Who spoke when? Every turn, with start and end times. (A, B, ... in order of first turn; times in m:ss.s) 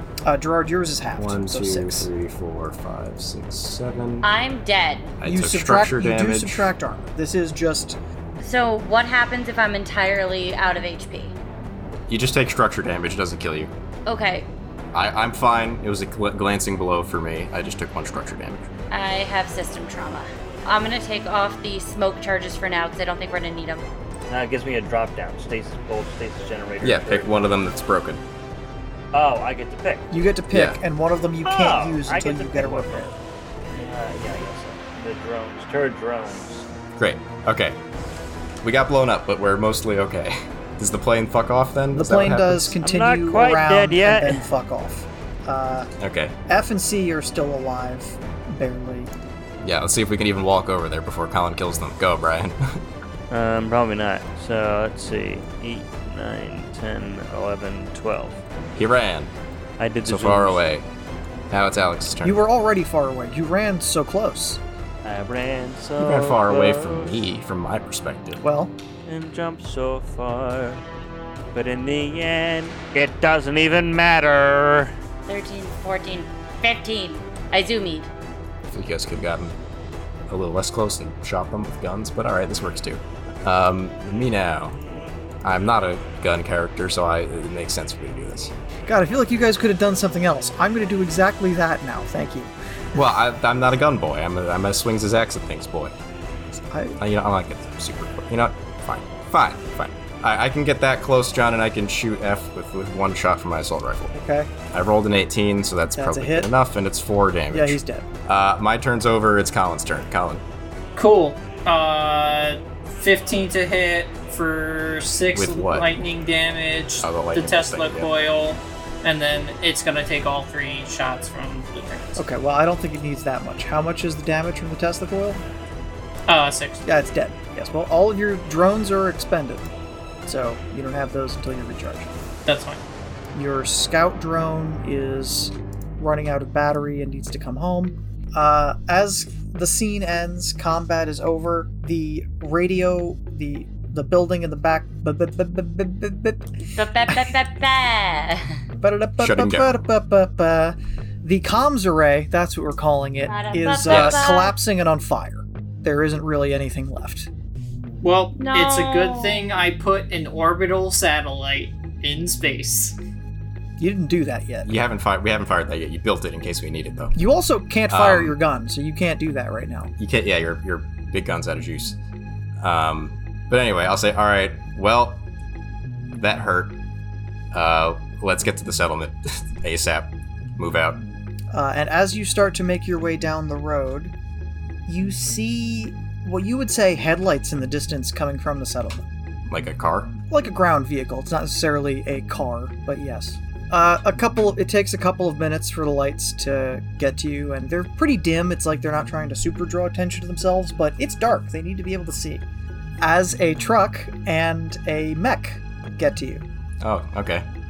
0:00.2-0:02.1 A
0:01.2-0:04.2 B
0:04.2-0:05.2 C
0:05.2-0:06.7 B
0:05.2-0:08.0 A
0:08.4-0:11.4 C
0:12.1-0:13.7 B
0:14.0-0:14.5 C
0:14.9-0:18.7 B
0:18.9-0:23.8 C
0:24.3-0:27.5 D
0:26.8-0:28.2 B
0:29.1-0:30.1 D
0:30.1-0:33.1 A
0:30.5-0:30.8 B
0:31.4-0:33.2 D
0:33.7-0:36.6 D
0:37.0-0:37.8 B
0:38.6-0:42.8 B
0:41.9-0:45.9 A
0:42.8-0:44.4 D
0:46.0-0:46.4 B
0:46.5-0:49.1 A
0:49.6-0:52.8 B
0:53.3-0:58.4 D
0:58.8-0:59.3 B
0:59.8-1:00.6 D
1:00.0-1:00.9 B
1:01.5-1:02.4 B
1:02.2-1:04.6 A
1:05.0-1:07.2 D
1:06.0-1:08.4 B
1:08.4-1:08.7 A
1:09.0-1:10.8 D
1:11.5-1:14.9 D
1:15.3-1:18.1 C
1:18.7-1:19.6 B
1:20.3-1:24.8 B
1:25.4-1:28.5 B
1:28.9-1:32.5 A
1:32.9-1:35.9 B
1:36.7-1:37.0 A
1:37.0-1:44.1 B
1:44.1-1:44.5 A
1:44.7-1:50.4 B
1:45.9-1:46.5 A
1:47.5-1:48.0 A
1:51.0-2:02.2 E
1:55.3-1:56.0 B
1:57.0-1:58.1 B
2:02.2-2:05.4 A
2:06.3-2:06.8 E
2:06.8-2:09.6 A
2:10.2-2:12.1 A
2:12.4-2:12.8 E
2:13.3-2:26.4 A
2:26.7-2:28.6 C
2:28.8-2:37.3 A
2:29.2-2:29.7 B
2:33.2-2:34.6 C
2:33.9-2:34.2 B
2:38.0-2:43.0 E
2:38.4-2:39.4 C
2:43.8-2:44.7 A
2:44.6-2:47.1 B
2:47.1-2:49.9 A
2:47.9-2:48.3 B
2:50.0-2:52.0 B
2:52.6-2:55.2 B
2:56.2-2:56.8 B
2:57.5-3:01.0 B
3:01.5-3:04.1 A
3:04.9-3:09.0 A
3:09.5-3:10.1 B
3:10.3-3:22.4 A
3:23.0-3:26.4 A
3:26.8-3:27.4 B